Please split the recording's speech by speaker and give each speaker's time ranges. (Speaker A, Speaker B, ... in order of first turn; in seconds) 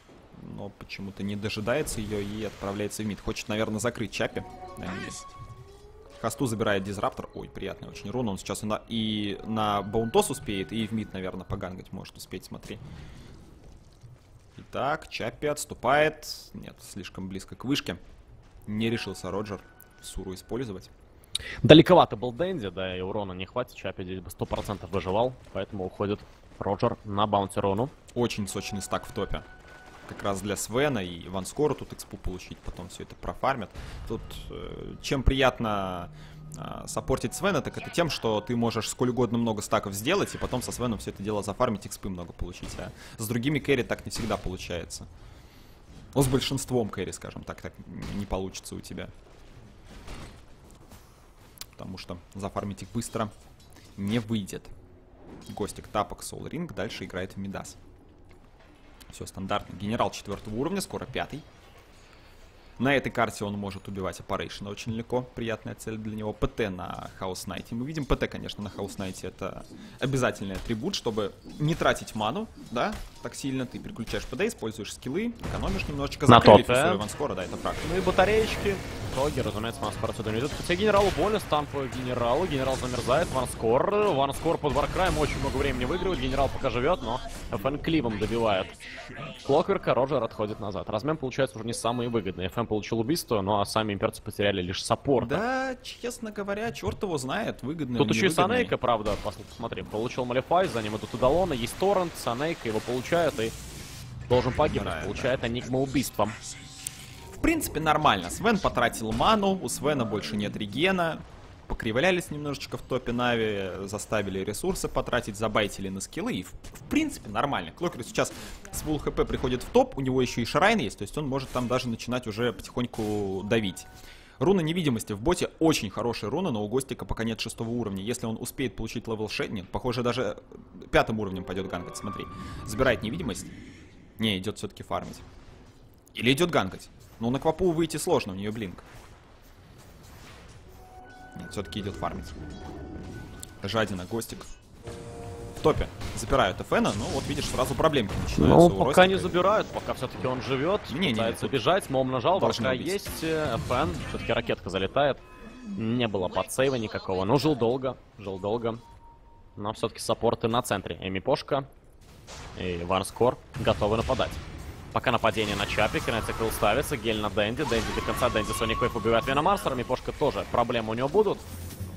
Speaker A: 0.3-5.3, 6.2-12.8, 14.6-18.0, 18.7-20.9, 28.1-29.4, 30.1-45.1, 46.1-49.1, 51.8-53.3, 54.0-54.7, 55.5-57.8, 59.1-61.4, 62.8-77.9, 95.2-98.7, 104.6-105.4, 107.4-123.9, 124.4-133.5, 134.2-135.2, 136.1-138.8, 141.3-142.3, 143.6-144.5, 145.6-149.4, 150.9-151.6, 152.3-153.0
Speaker B: 21.6-27.9, 76.3-77.0, 77.8-95.4, 98.0-103.5, 104.3-106.4, 148.4-155.2, 155.7-158.8, 159.6-161.7, 162.5-164.4, 164.9-171.4